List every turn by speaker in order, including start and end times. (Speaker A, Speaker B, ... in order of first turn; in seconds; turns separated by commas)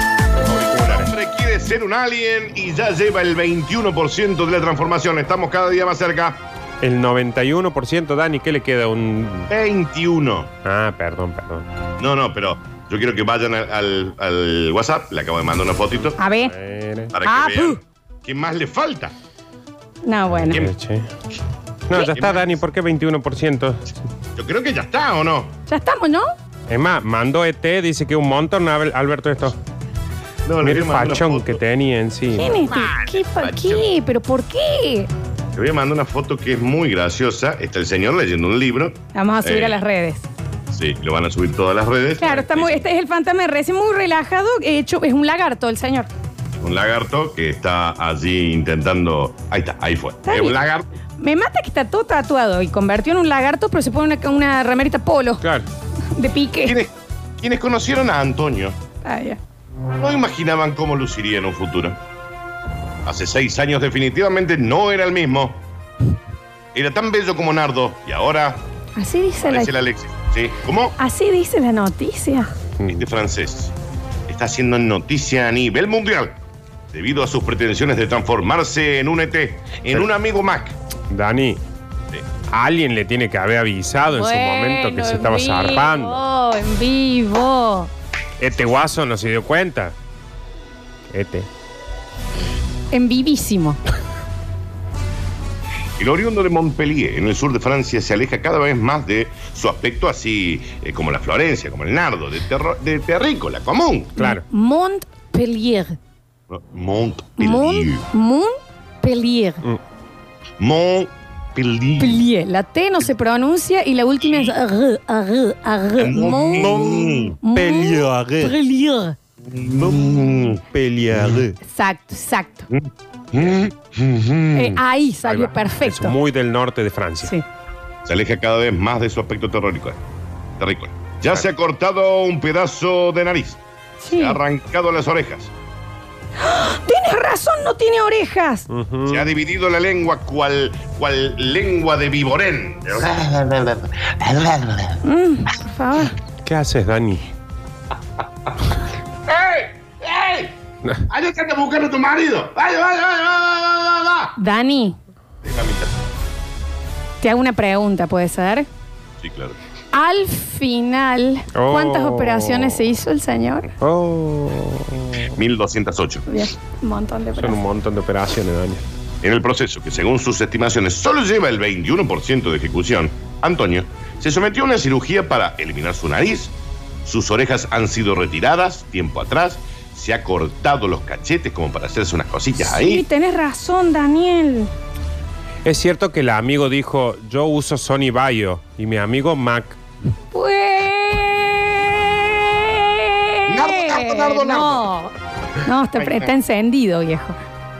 Speaker A: 0.4-1.1, Speaker B: 0.7-6.4, Speaker A: 6.8-9.5, Speaker B: 9.5-10.5, Speaker A: 10.6-11.7, Speaker B: 12.0-16.2, Speaker C: 16.2-16.5, Speaker A: 16.5-17.1, Speaker B: 17.1-19.1, Speaker C: 17.2-17.8, Speaker C: 20.0-20.6, Speaker A: 20.5-21.1, Speaker A: 21.9-23.9, Speaker B: 21.9-22.6, Speaker B: 24.4-25.5, Speaker C: 25.7-26.3, Speaker A: 26.7-29.6, Speaker B: 30.4-31.6, Speaker A: 30.6-32.6, Speaker C: 32.3-35.1, Speaker B: 32.4-33.9, Speaker B: 35.5-39.8, Speaker C: 39.1-40.3, Speaker B: 40.7-42.9, Speaker C: 42.2-46.1, Speaker B: 46.6-50.9, Speaker C: 50.2-50.6, Speaker C: 51.2-55.4, Speaker A: 55.4-55.7, Speaker C: 56.1-56.8, Speaker B: 56.6-58.8, Speaker C: 59.0-59.4, Speaker B: 60.0-62.0, Speaker B: 63.0-65.6, Speaker B: 66.7-68.6, Speaker C: 69.0-69.7, Speaker B: 69.5-71.0, Speaker C: 71.0-72.5, Speaker A: 72.8-73.0, Speaker B: 72.9-73.7, Speaker B: 74.3-76.4, Speaker B: 76.9-80.7, Speaker A: 81.1-81.6, Speaker A: 82.5-86.2, Speaker C: 84.1-87.9, Speaker A: 88.4-89.9, Speaker A: 91.1-91.5, Speaker C: 92.9-93.8, Speaker B: 96.0-104.1, Speaker C: 104.2-106.0, Speaker A: 104.2-104.4, Speaker B: 106.5-108.0, Speaker C: 107.4-109.6, Speaker B: 110.6-112.2, Speaker C: 112.0-119.2, Speaker B: 114.2-114.5, Speaker B: 116.0-117.4, Speaker A: 117.5-118.6, Speaker B: 119.4-121.4, Speaker A: 120.7-121.5, Speaker C: 121.6-122.7, Speaker B: 122.7-124.8, Speaker C: 124.5-126.2, Speaker A: 125.2-127.3, Speaker B: 128.0-130.0, Speaker B: 130.6-133.6, Speaker C: 134.0-134.4, Speaker B: 134.1-135.5, Speaker C: 136.4-138.7, Speaker A: 138.7-139.3, Speaker B: 139.1-145.0, Speaker C: 145.0-146.2, Speaker A: 146.4-147.2, Speaker B: 149.3-150.5, Speaker B: 151.1-154.3, Speaker C: 154.3-155.0, Speaker B: 155.4-156.0, Speaker C: 157.2-158.7, Speaker B: 159.2-159.6, Speaker C: 159.9-163.7, Speaker A: 161.5-162.9, Speaker A: 163.8-165.3, Speaker B: 165.3-166.2, Speaker C: 166.3-167.6, Speaker A: 167.4-168.8, Speaker B: 169.2-176.5, Speaker B: 177.0-183.0, Speaker C: 182.6-184.7, Speaker A: 185.6-189.8, Speaker C: 190.3-197.3, Speaker B: 193.5-194.9, Speaker B: 195.9-196.3